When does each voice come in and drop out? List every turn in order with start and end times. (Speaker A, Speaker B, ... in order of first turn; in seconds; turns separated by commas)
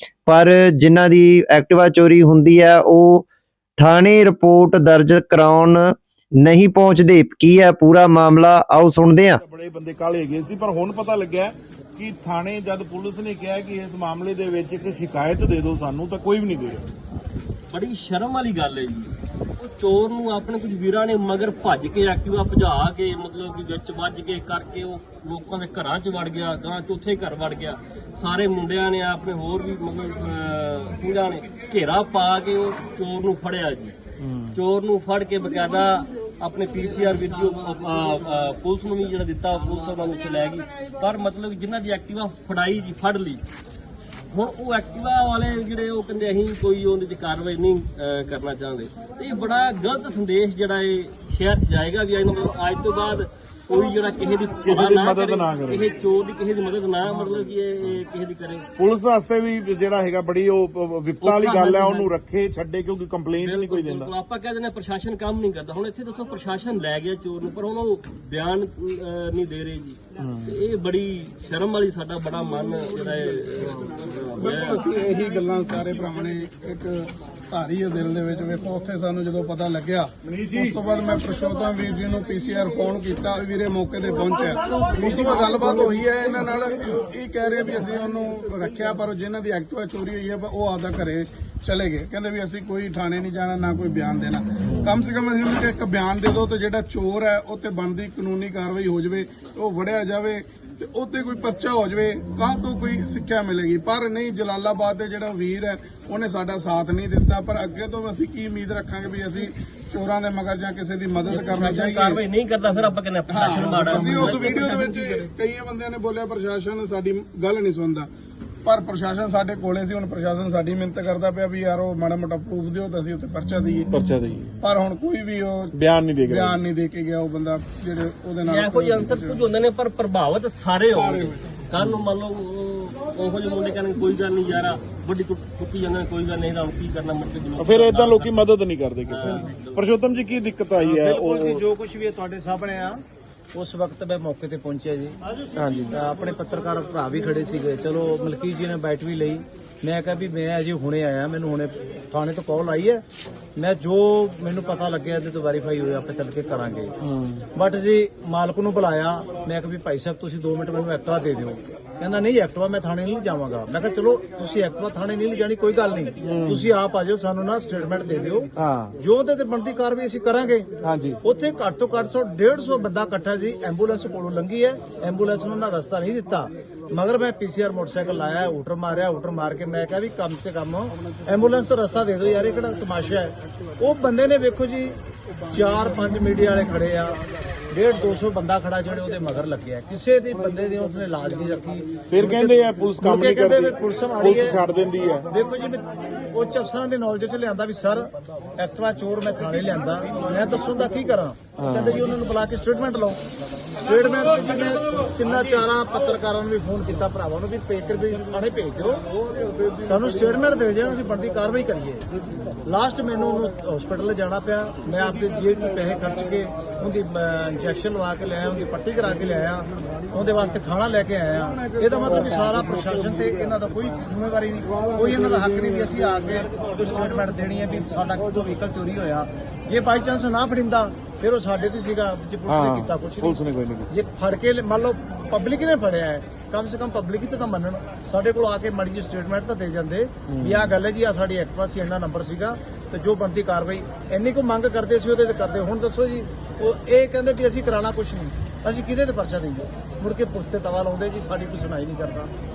Speaker A: 0.3-3.2, Speaker A: 3.8-9.4, Speaker B: 9.4-16.9, Speaker C: 17.7-33.9, Speaker B: 34.2-34.6, Speaker C: 34.5-43.4, Speaker C: 44.3-58.7, Speaker B: 54.6-55.9, Speaker B: 58.8-64.1, Speaker C: 61.2-62.1, Speaker C: 63.4-74.8, Speaker B: 70.2-70.6, Speaker D: 74.4-112.2, Speaker B: 80.3-80.7, Speaker C: 111.3-115.3, Speaker D: 113.3-118.1, Speaker D: 118.6-123.9, Speaker B: 123.9-124.5, Speaker D: 124.6-125.7, Speaker B: 125.7-126.6, Speaker D: 126.2-129.4, Speaker C: 128.4-138.3, Speaker D: 130.9-131.4, Speaker B: 131.8-132.1, Speaker B: 137.6-141.6, Speaker C: 139.1-139.8, Speaker E: 140.8-143.0, Speaker E: 143.5-145.2, Speaker B: 145.6-146.0, Speaker E: 145.9-153.0, Speaker E: 153.6-156.9, Speaker B: 157.0-157.4, Speaker E: 157.5-170.7, Speaker B: 166.2-166.7, Speaker B: 168.6-168.9, Speaker B: 170.8-171.2, Speaker E: 171.2-185.0, Speaker E: 185.5-187.2, Speaker E: 187.7-194.6, Speaker B: 192.1-195.3, Speaker E: 195.3-203.2, Speaker B: 201.6-202.0, Speaker E: 203.8-209.0, Speaker E: 209.8-212.0, Speaker E: 212.6-233.4, Speaker B: 232.5-233.9, Speaker E: 233.9-252.3, Speaker B: 240.3-240.8